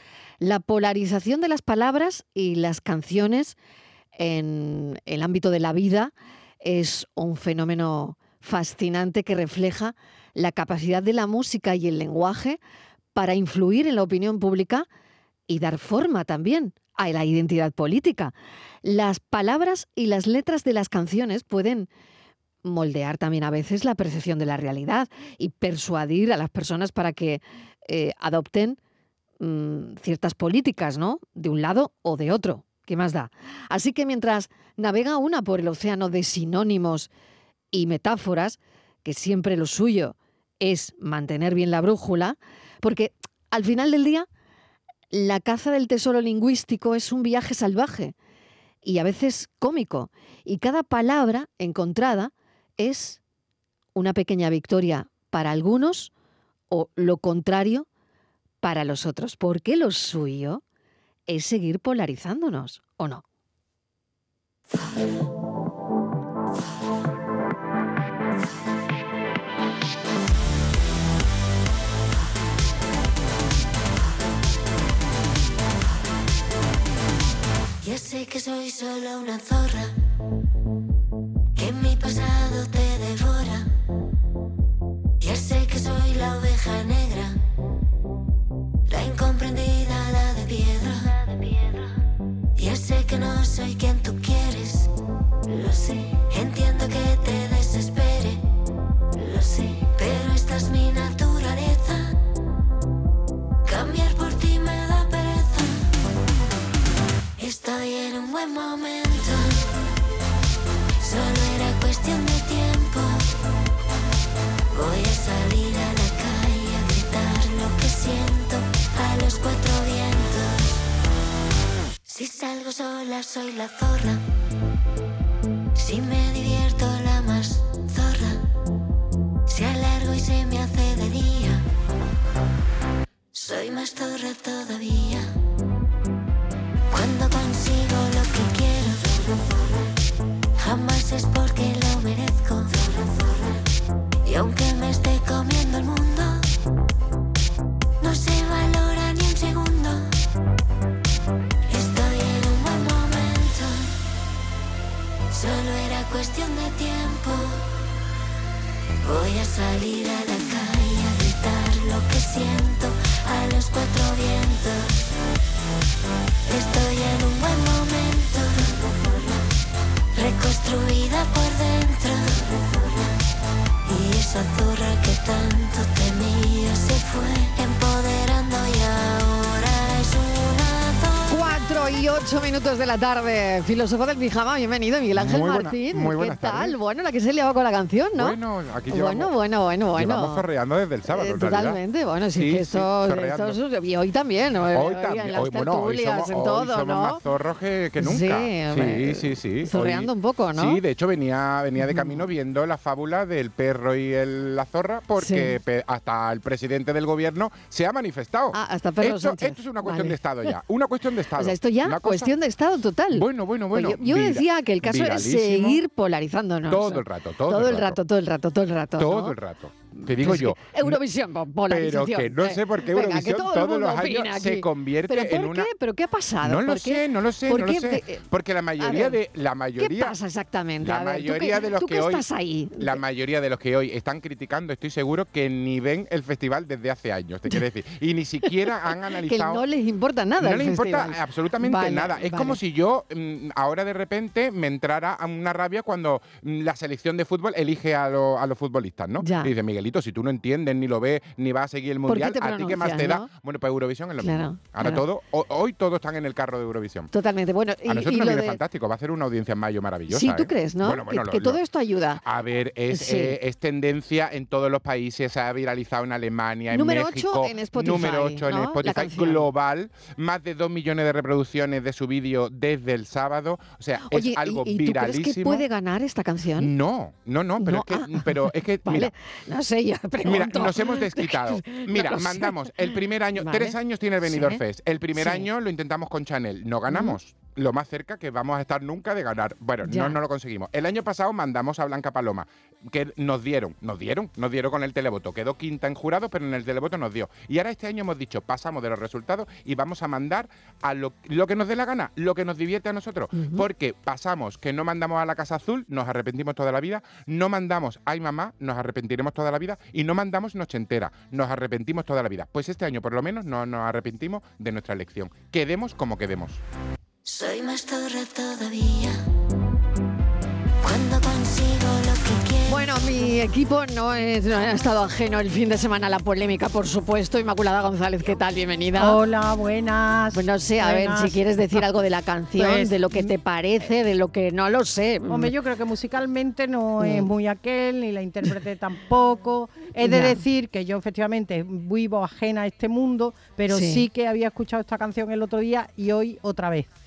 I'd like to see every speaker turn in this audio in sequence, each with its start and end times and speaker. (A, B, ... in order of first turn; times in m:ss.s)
0:00.4-0:03.6 A
0:04.2-0:12.6 A
0:13.2-0:14.9 A
0:15.5-0:21.9 A
0:22.6-0:28.8 A
0:29.4-0:37.1 A
0:37.7-0:44.3 A
0:45.1-0:48.2 A
0:48.8-0:53.2 A
0:54.0-0:56.1 A
0:56.7-0:57.9 A
0:58.6-1:00.6 A
1:01.3-1:03.2 A
1:17.8-1:19.9 B
1:21.6-1:23.7 B
1:25.2-1:27.4 B
1:28.9-1:31.9 B
1:32.6-1:34.9 B
1:35.5-1:38.4 B
1:39.2-1:42.2 B
1:43.6-1:45.9 B
1:47.4-1:49.7 B
1:51.0-1:53.3 B
1:54.7-2:00.8 B
2:02.1-2:04.2 B
2:05.8-2:08.4 B
2:09.5-2:11.6 B
2:13.3-2:15.3 B
2:16.9-2:19.9 B
2:20.6-2:23.6 B
2:24.2-2:26.5 B
2:28.0-2:30.1 B
2:31.7-2:33.9 B
2:35.3-2:37.6 B
2:39.0-2:45.0 B
2:46.5-2:49.4 B
2:50.1-2:53.2 B
2:53.9-3:01.4 B
3:01.3-3:08.4 A
3:05.1-3:06.8 C
3:08.2-3:09.3 C
3:08.9-3:10.4 A
3:09.9-3:11.8 C
3:11.1-3:17.2 A
3:12.4-3:13.6 C
3:14.7-3:32.3 C
3:18.0-3:20.8 A
3:21.8-3:22.3 A
3:25.2-3:25.6 A
3:28.5-3:30.2 A
3:31.4-3:39.4 A
3:33.1-3:35.8 C
3:36.7-3:38.0 C
3:39.0-3:41.0 C
3:40.0-3:48.2 A
3:41.7-3:45.7 C
3:46.4-3:50.2 C
3:48.8-3:49.2 A
3:49.8-3:53.0 A
3:50.8-3:52.3 C
3:52.8-3:59.6 C
3:59.2-4:02.6 A
4:00.4-4:17.1 C
4:09.2-4:09.5 A
4:12.1-4:13.3 A
4:14.2-4:15.0 A
4:17.1-4:18.6 A
4:17.9-4:21.6 C
4:20.1-4:22.2 A
4:22.2-4:35.7 C
4:22.9-4:23.4 A
4:26.7-4:29.5 A
4:34.0-4:36.7 A
4:36.6-4:39.1 C
4:37.6-4:42.6 A
4:40.2-5:16.6 C
4:43.4-4:44.6 A
4:45.2-4:45.5 A
4:46.9-4:47.2 A
4:49.8-4:50.2 A
5:03.3-5:03.7 A
5:17.2-5:19.2 B
5:20.8-5:23.1 B
5:22.7-5:29.2 A
5:29.0-5:31.8 D
5:30.3-5:35.5 A
5:32.6-5:33.3 D
5:35.3-5:46.9 D
5:37.0-5:37.3 A
5:40.0-5:40.4 A
5:43.7-5:44.0 A